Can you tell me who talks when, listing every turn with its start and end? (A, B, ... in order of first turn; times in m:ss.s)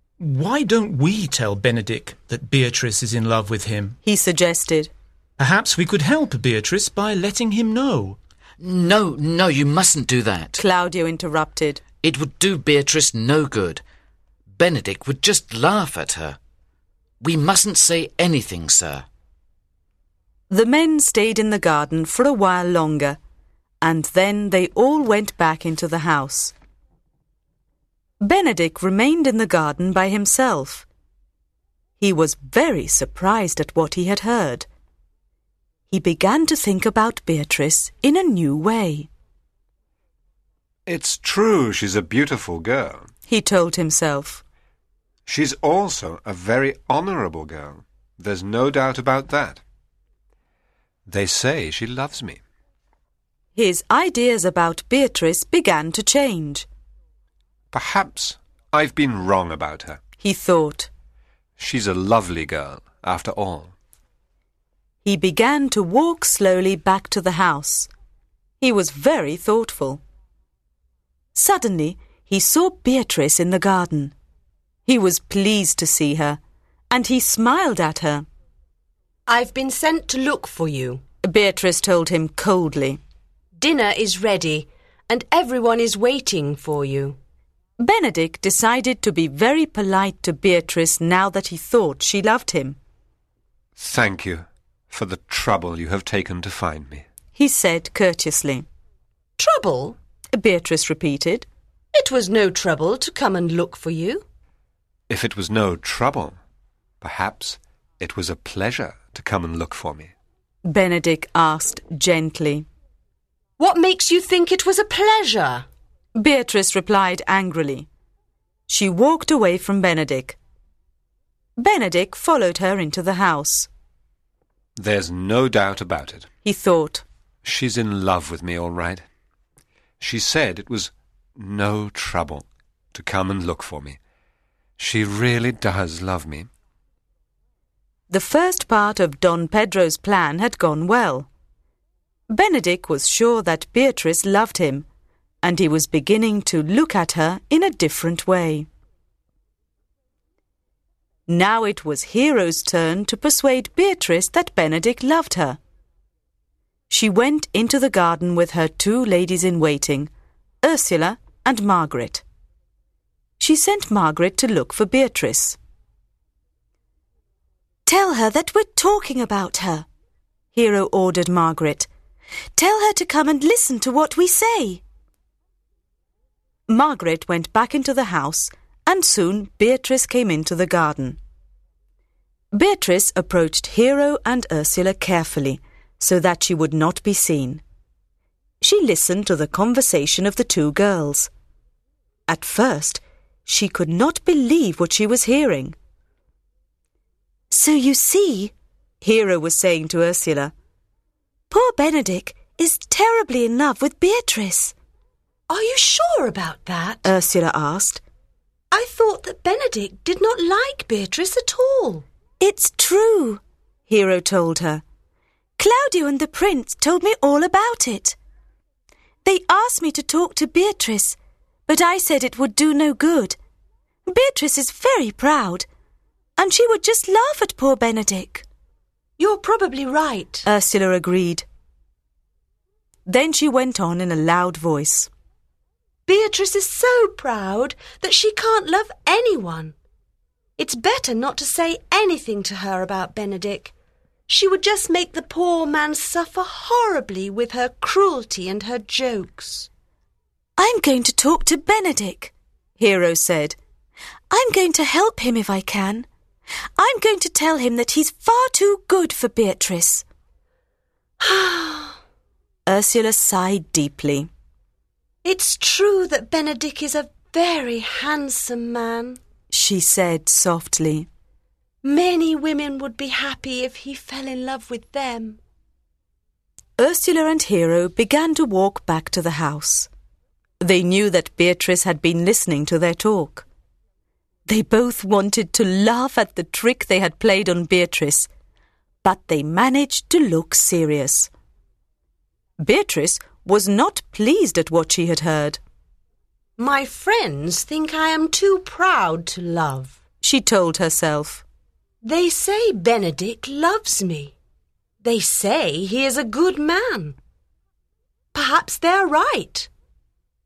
0:00.2-0:04.0 A
0:04.0-0:04.9 B
0:05.4-0:08.2 A
0:08.6-0:10.6 C
0:10.6-0:11.8 B
0:12.0-0:13.8 C
0:14.5-0:16.4 C
0:17.2-0:19.0 C
0:20.5-0:23.2 B
0:23.8-0:26.5 B
0:28.2-0:30.9 B
0:32.0-0:34.7 B
0:35.9-0:39.1 B
0:40.9-0:43.1 D
0:43.3-0:44.4 B
0:45.3-0:49.6 D
0:51.1-0:52.4 D
0:53.6-0:56.7 B
0:57.7-1:00.0 D
1:00.2-1:00.9 B
1:01.6-1:03.7 D
1:05.0-1:07.9 B
1:08.6-1:10.0 B
1:11.4-1:14.1 B
1:14.9-1:16.4 B
1:16.9-1:18.3 B
1:19.3-1:21.0 E
1:21.2-1:23.0 B
1:23.6-1:27.2 E
1:27.8-1:32.8 B
1:33.8-1:37.0 D
1:37.4-1:38.6 B
1:39.4-1:40.0 E
1:40.3-1:41.5 B
1:41.9-1:44.2 E
1:45.1-1:46.4 D
1:47.0-1:50.1 D
1:50.6-1:52.7 B
1:53.6-1:55.7 E
1:56.2-1:57.9 B
1:58.7-2:00.4 B
2:01.6-2:03.7 B
2:04.8-2:06.3 D
2:06.4-2:07.0 B
2:07.4-2:09.0 D
2:10.0-2:14.0 D
2:14.8-2:16.5 D
2:18.1-2:21.3 B
2:22.3-2:24.9 B
2:25.4-2:28.7 B
2:31.3-2:35.6 B
2:36.9-2:40.1 B
2:40.6-2:42.2 B
2:43.4-2:45.6 B
2:47.8-2:49.9 B
2:50.5-2:51.9 B
2:52.6-2:54.8 B
2:56.7-3:01.2 B
3:02.5-3:07.6 B
3:08.6-3:11.3 B
3:12.3-3:15.8 B
3:17.5-3:20.5 B
3:21.5-3:24.8 B
3:25.5-3:27.0 E
3:27.0-3:28.0 B
3:28.7-3:32.0 E
3:32.4-3:34.8 B
3:35.6-3:38.2 B
3:39.2-3:43.4 B
3:44.1-3:45.7 B
3:46.4-3:48.4 B
3:49.2-3:50.4 E
3:50.4-3:51.5 B
3:53.1-3:55.1 B
3:56.1-3:59.8 E
4:00.6-4:03.7 E
4:04.3-4:09.7 E
4:10.6-4:13.6 B
4:14.3-4:16.1 B
4:16.8-4:20.0 B
4:21.2-4:22.0 E
4:22.7-4:24.3 B
4:25.2-4:29.2 E
4:29.5-4:31.1 B
4:31.8-4:35.4 E
4:36.8-4:39.9 B
4:40.6-4:43.5 B
4:44.5-4:48.3 B
4:49.0-4:51.3 B
4:52.6-4:55.6 B
4:56.6-5:00.0 E
5:00.2-5:01.4 B
5:02.0-5:04.4 E
5:05.0-5:07.2 E
5:08.3-5:09.7 E